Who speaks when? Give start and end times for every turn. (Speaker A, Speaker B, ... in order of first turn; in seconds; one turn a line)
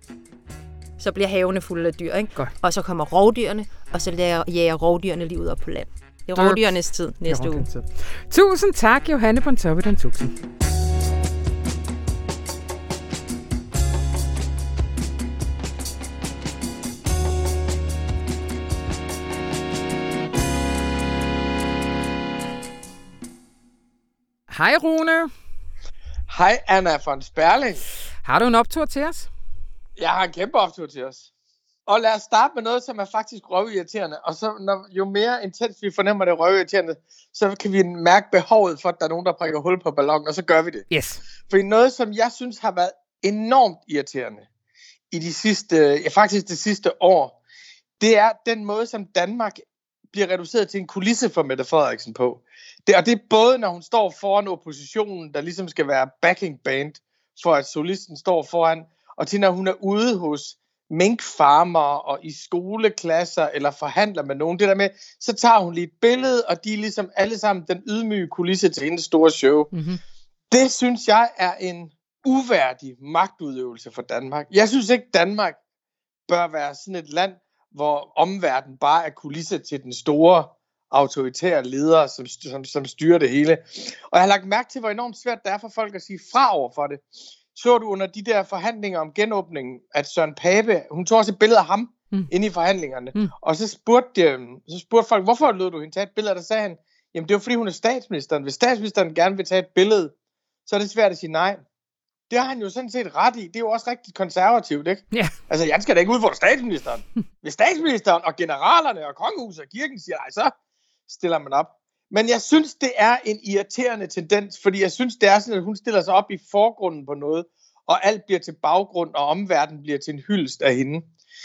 Speaker A: 1.0-7.7
Speaker B: 6.3-6.6
Speaker B: 7.3-10.4
Speaker B: 24.5-25.3
Speaker C: 26.3-27.8
Speaker B: 28.2-29.3
Speaker C: 30.0-31.3
Speaker C: 31.9-40.9
Speaker B: 40.9-41.2
Speaker C: 41.5-44.4
Speaker C: 45.1-47.4
Speaker C: 48.0-69.7
Speaker B: 69.7-70.0
Speaker C: 70.5-75.6
Speaker C: 76.3-100.1
Speaker C: 100.7-101.6
Speaker C: 102.3-110.5
Speaker C: 111.1-121.1